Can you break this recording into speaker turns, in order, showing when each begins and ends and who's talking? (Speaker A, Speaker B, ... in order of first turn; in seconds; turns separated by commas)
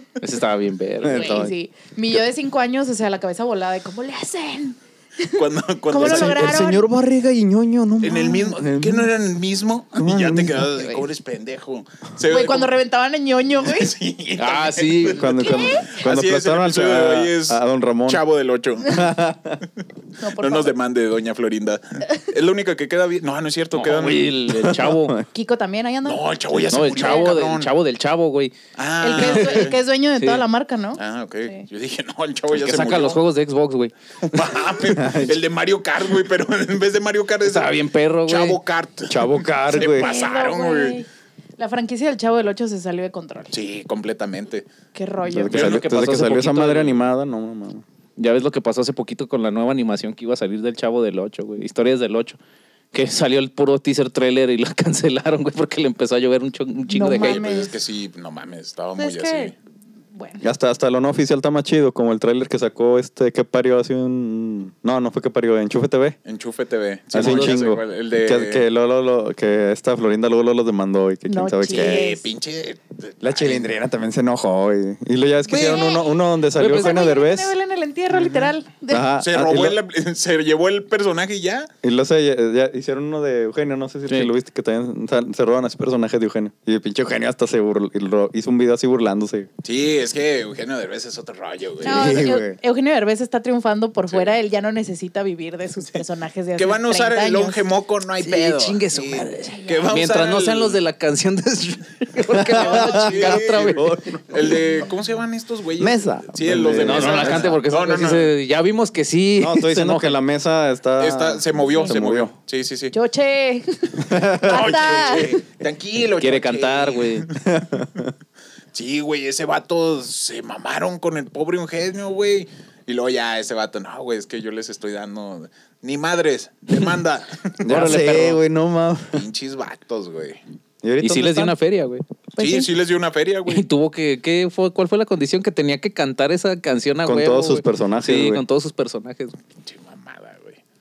Speaker A: 0.2-1.4, Speaker B: 1.0-1.5, Speaker C: 1.1-6.8, Speaker D: 5.3-6.7, Speaker B: 6.0-9.1, Speaker D: 8.0-12.7, Speaker B: 10.0-10.8, Speaker C: 10.8-11.0, Speaker C: 12.3-13.9, Speaker D: 13.6-19.2, Speaker A: 14.4-15.4, Speaker B: 15.1-18.2, Speaker C: 15.3-15.9, Speaker B: 18.9-19.6, Speaker C: 20.2-20.7, Speaker D: 20.3-24.4, Speaker A: 23.7-25.2, Speaker B: 24.5-25.2, Speaker C: 25.3-26.2, Speaker D: 26.0-27.7, Speaker A: 26.7-28.6, Speaker C: 26.8-27.4, Speaker D: 28.8-29.8, Speaker C: 29.0-31.6, Speaker A: 30.2-30.4, Speaker D: 31.0-33.2, Speaker A: 32.5-34.6, Speaker D: 34.2-41.0, Speaker B: 34.8-35.4, Speaker A: 37.4-38.6, Speaker B: 39.1-40.1, Speaker C: 39.7-41.1, Speaker C: 41.6-43.5, Speaker D: 43.5-44.7, Speaker C: 44.9-45.6, Speaker B: 45.2-47.8, Speaker A: 45.5-47.0, Speaker A: 48.2-52.4, Speaker A: 52.9-57.4, Speaker C: 56.9-57.8, Speaker D: 57.2-59.5, Speaker C: 59.0-59.5, Speaker C: 60.1-60.4, Speaker B: 60.4-66.2, Speaker D: 66.2-68.6, Speaker B: 67.1-72.1, Speaker A: 67.1-67.6, Speaker C: 71.3-72.2, Speaker D: 71.7-73.7, Speaker B: 73.2-77.5, Speaker C: 75.4-79.1, Speaker A: 76.5-77.1, Speaker B: 78.2-79.8, Speaker D: 79.2-81.7, Speaker B: 81.8-89.5, Speaker A: 84.1-84.3, Speaker D: 89.6-92.2, Speaker C: 91.8-97.6, Speaker B: 91.8-92.6, Speaker D: 96.6-100.8, Speaker A: 98.2-103.9, Speaker C: 99.5-99.9, Speaker B: 102.3-104.9, Speaker D: 102.5-108.3, Speaker B: 105.8-107.5, Speaker A: 106.8-110.2, Speaker B: 109.4-112.3, Speaker D: 111.0-112.9, Speaker C: 112.9-115.4, Speaker B: 114.0-114.8, Speaker D: 114.4-117.5, Speaker A: 116.2-117.3, Speaker B: 117.4-118.1, Speaker D: 118.7-128.1, Speaker B: 127.6-129.2, Speaker A: 127.7-128.4, Speaker D: 129.1-130.4, Speaker B: 130.8-131.5, Speaker A: 131.0-132.0, Speaker C: 132.3-132.7, Speaker D: 132.4-133.6, Speaker A: 133.5-139.4, Speaker B: 137.0-138.4, Speaker D: 139.6-140.6